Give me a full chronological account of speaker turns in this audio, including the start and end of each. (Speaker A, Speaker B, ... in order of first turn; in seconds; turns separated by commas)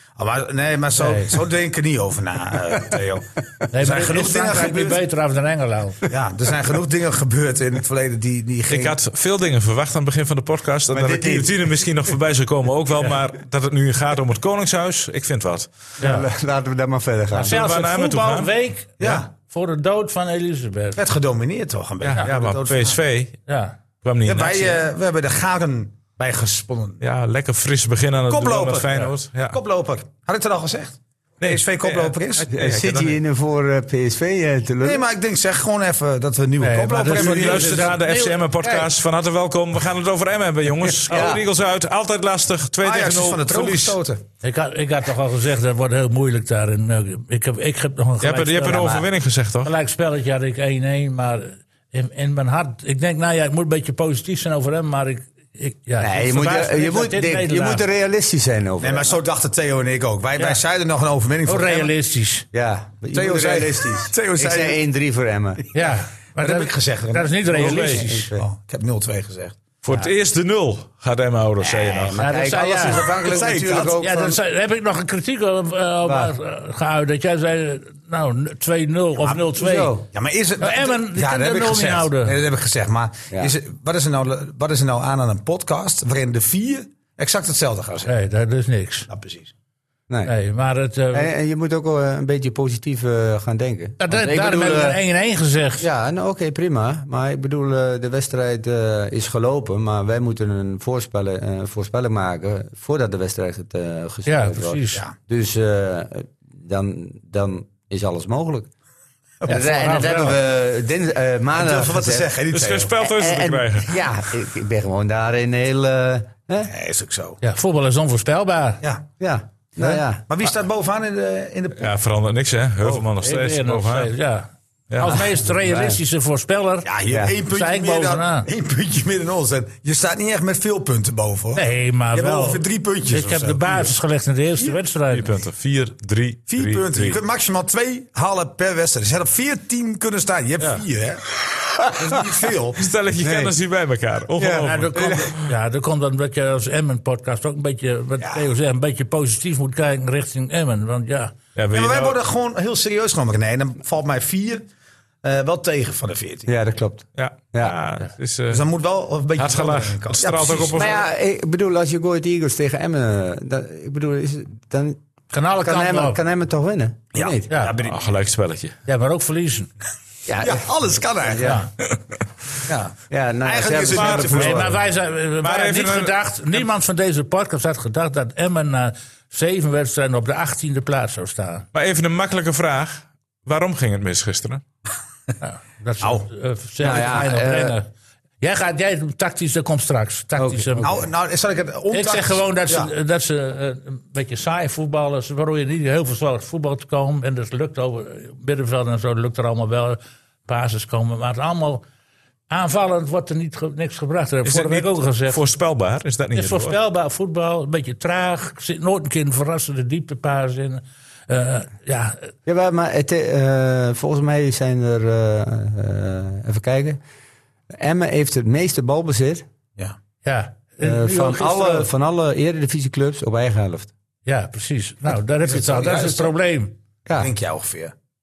Speaker A: 0.2-5.0, Speaker B: 1.0-1.4, Speaker B: 3.7-6.1, Speaker A: 6.1-9.0, Speaker C: 8.7-15.7, Speaker A: 10.9-11.5, Speaker D: 11.0-11.4, Speaker B: 16.0-16.3, Speaker D: 16.0-17.6, Speaker B: 17.3-21.0, Speaker C: 17.5-18.5, Speaker A: 19.0-19.3, Speaker A: 21.0-23.0, Speaker C: 22.1-23.4, Speaker B: 23.5-23.8, Speaker C: 24.0-24.8, Speaker A: 24.3-27.0, Speaker C: 27.0-29.6, Speaker A: 28.3-32.5, Speaker C: 31.4-33.2, Speaker D: 32.5-35.0, Speaker A: 34.8-37.9, Speaker B: 36.6-38.5, Speaker C: 37.1-44.0, Speaker D: 40.9-41.4, Speaker A: 42.8-44.2, Speaker B: 44.4-49.0, Speaker C: 48.2-49.7, Speaker B: 49.6-57.8, Speaker D: 56.0-59.2, Speaker A: 58.8-61.9, Speaker B: 61.5-62.5, Speaker D: 62.5-65.6, Speaker A: 63.1-64.8, Speaker B: 65.7-68.3, Speaker A: 66.3-69.6, Speaker C: 67.6-68.0, Speaker D: 67.8-68.5, Speaker C: 69.8-72.2, Speaker D: 71.6-74.4, Speaker B: 72.2-73.1, Speaker A: 72.8-74.0, Speaker B: 73.7-79.9, Speaker D: 76.0-76.3, Speaker A: 79.2-79.5, Speaker D: 79.6-80.0, Speaker A: 80.1-88.1, Speaker B: 80.6-82.4, Speaker D: 83.3-83.6, Speaker B: 88.0-89.1, Speaker A: 89.1-89.5, Speaker B: 90.2-91.3, Speaker D: 91.1-95.0, Speaker B: 94.0-95.9, Speaker D: 95.8-108.7, Speaker B: 104.3-105.0, Speaker B: 109.5-110.4, Speaker D: 109.5-112.3, Speaker A: 111.5-112.9, Speaker C: 112.5-114.1, Speaker D: 113.0-116.7, Speaker A: 116.6-117.4, Speaker B: 117.4-118.8, Speaker D: 119.2-120.2, Speaker A: 119.8-121.9, Speaker C: 121.8-124.1, Speaker B: 123.2-126.9, Speaker C: 124.9-125.2, Speaker D: 125.4-126.0, Speaker A: 126.8-134.0, Speaker D: 127.1-127.4, Speaker B: 127.5-128.5, Speaker B: 131.6-135.3, Speaker C: 135.1-137.2, Speaker A: 136.5-142.9, Speaker C: 142.8-145.4, Speaker D: 143.2-143.5, Speaker A: 144.6-145.2, Speaker B: 144.6-151.3, Speaker A: 148.2-148.5, Speaker C: 151.6-152.2, Speaker A: 151.7-154.7, Speaker A: 155.2-156.5, Speaker D: 156.5-157.8, Speaker C: 157.2-158.7, Speaker A: 158.5-160.9, Speaker C: 159.4-161.0, Speaker D: 160.7-165.0, Speaker B: 165.3-166.2, Speaker D: 165.6-167.5, Speaker A: 167.1-168.0, Speaker B: 167.5-167.8, Speaker C: 167.8-168.8, Speaker B: 168.9-169.7, Speaker D: 170.3-171.6, Speaker A: 170.4-171.6, Speaker B: 171.4-171.7, Speaker A: 172.7-174.8, Speaker D: 173.1-174.8, Speaker C: 173.9-174.5, Speaker B: 174.0-181.7, Speaker C: 175.4-176.1, Speaker C: 181.7-184.6, Speaker B: 185.4-187.9, Speaker A: 186.0-186.3, Speaker D: 186.8-187.8, Speaker B: 188.4-190.9, Speaker D: 190.4-191.1, Speaker A: 190.8-192.9, Speaker B: 191.9-201.8, Speaker B: 202.5-205.4, Speaker C: 204.4-206.8, Speaker B: 206.3-212.3, Speaker D: 212.5-217.0, Speaker D: 217.7-219.5, Speaker B: 220.2-221.9, Speaker D: 220.8-223.9, Speaker B: 224.3-226.8, Speaker A: 225.4-226.3, Speaker D: 227.1-227.3, Speaker A: 227.1-227.9